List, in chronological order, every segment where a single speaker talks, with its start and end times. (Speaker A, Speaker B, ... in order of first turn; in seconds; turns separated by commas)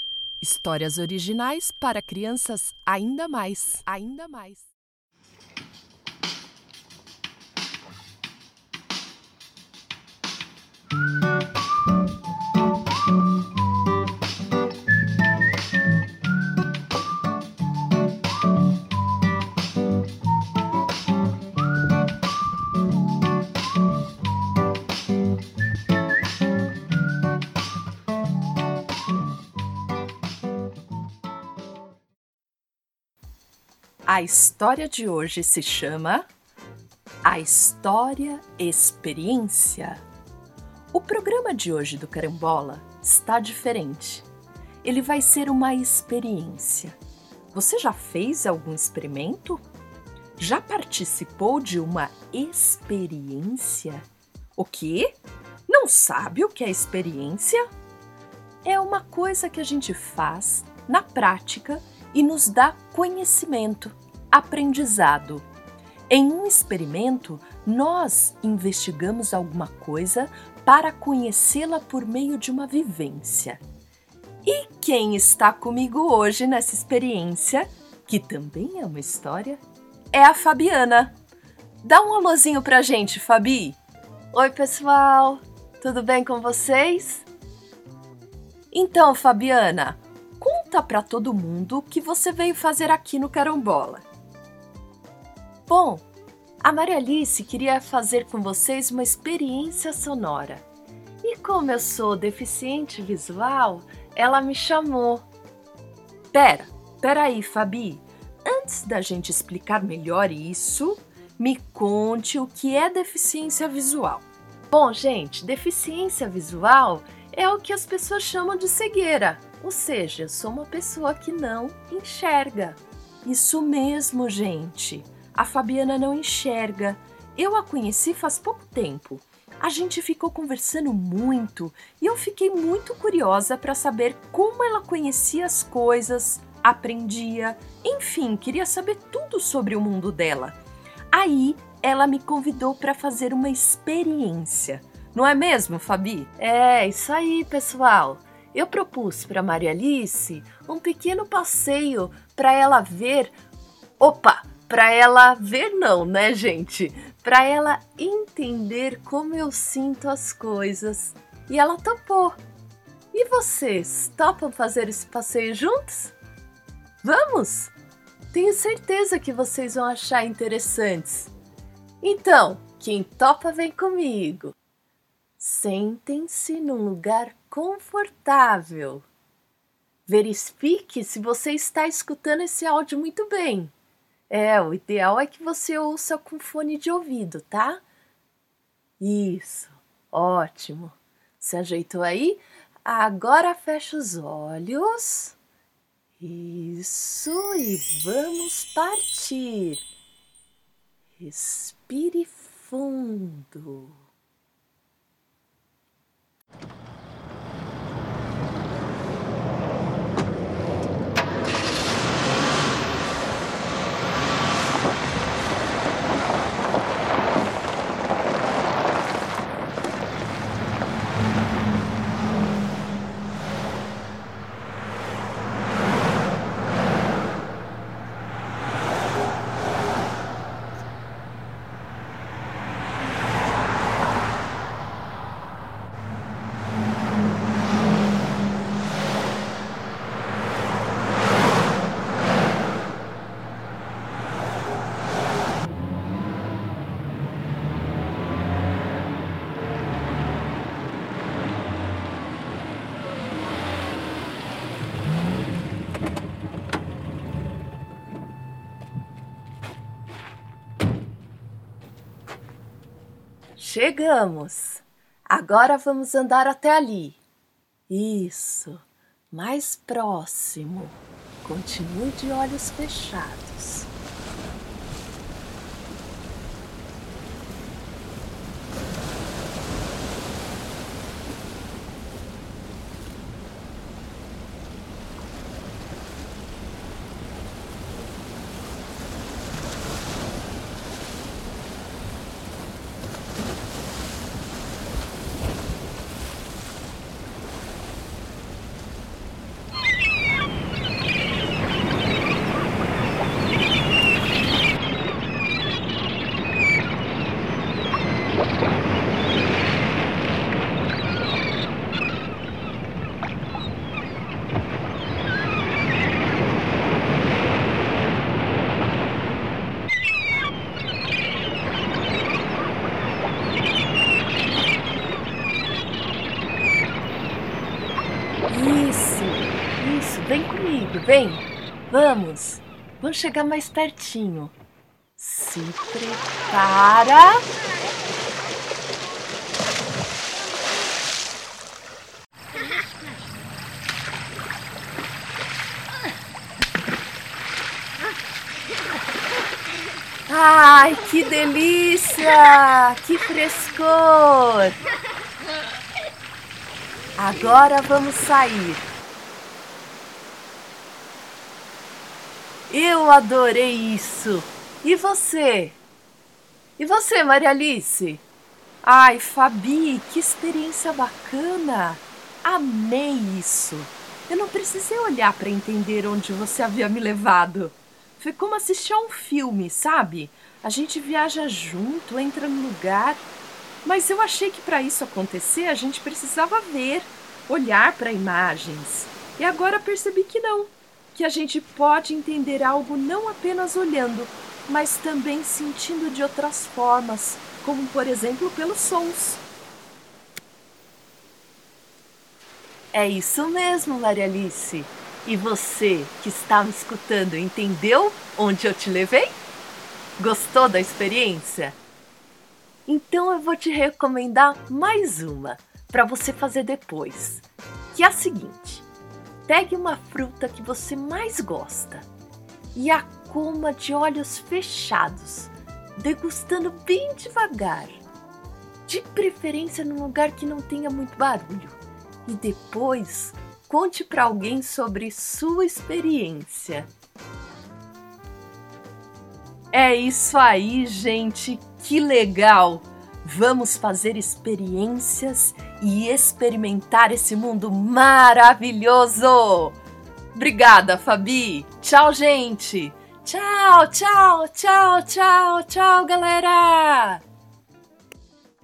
Speaker A: 0.4-4.7, Speaker A: 34.1-36.3, Speaker A: 37.2-40.0, Speaker A: 40.9-44.3, Speaker A: 44.8-47.0, Speaker A: 47.5-49.6, Speaker A: 50.4-54.0, Speaker A: 54.6-57.6, Speaker A: 58.6-65.5, Speaker A: 66.1-73.6, Speaker A: 74.4-79.6, Speaker A: 80.1-81.2, Speaker A: 81.8-83.8, Speaker A: 84.3-87.3, Speaker A: 88.7-94.0, Speaker A: 95.7-96.0, Speaker A: 96.6-100.7, Speaker A: 101.2-105.2, Speaker A: 106.3-140.6, Speaker A: 141.1-153.4, Speaker A: 154.0-162.4, Speaker A: 163.1-166.2, Speaker A: 167.0-167.7, Speaker A: 168.3-171.3, Speaker A: 172.0-174.5, Speaker A: 175.4-179.1, Speaker A: 180.1-183.7, Speaker A: 184.3-187.8, Speaker A: 189.0-195.4, Speaker A: 196.2-199.9, Speaker A: 201.2-204.0, Speaker A: 263.6-267.2, Speaker A: 267.9-273.9, Speaker A: 328.5-334.5, Speaker A: 335.2-337.4, Speaker A: 350.3-354.8, Speaker A: 357.2-358.9, Speaker A: 362.7-365.8, Speaker A: 366.8-368.2, Speaker A: 368.8-383.3, Speaker A: 383.8-399.4, Speaker A: 402.9-409.4, Speaker A: 410.2-411.8, Speaker A: 412.9-418.9, Speaker A: 419.5-422.1, Speaker A: 422.8-428.0, Speaker A: 428.9-436.9, Speaker A: 439.7-449.8, Speaker A: 450.3-457.2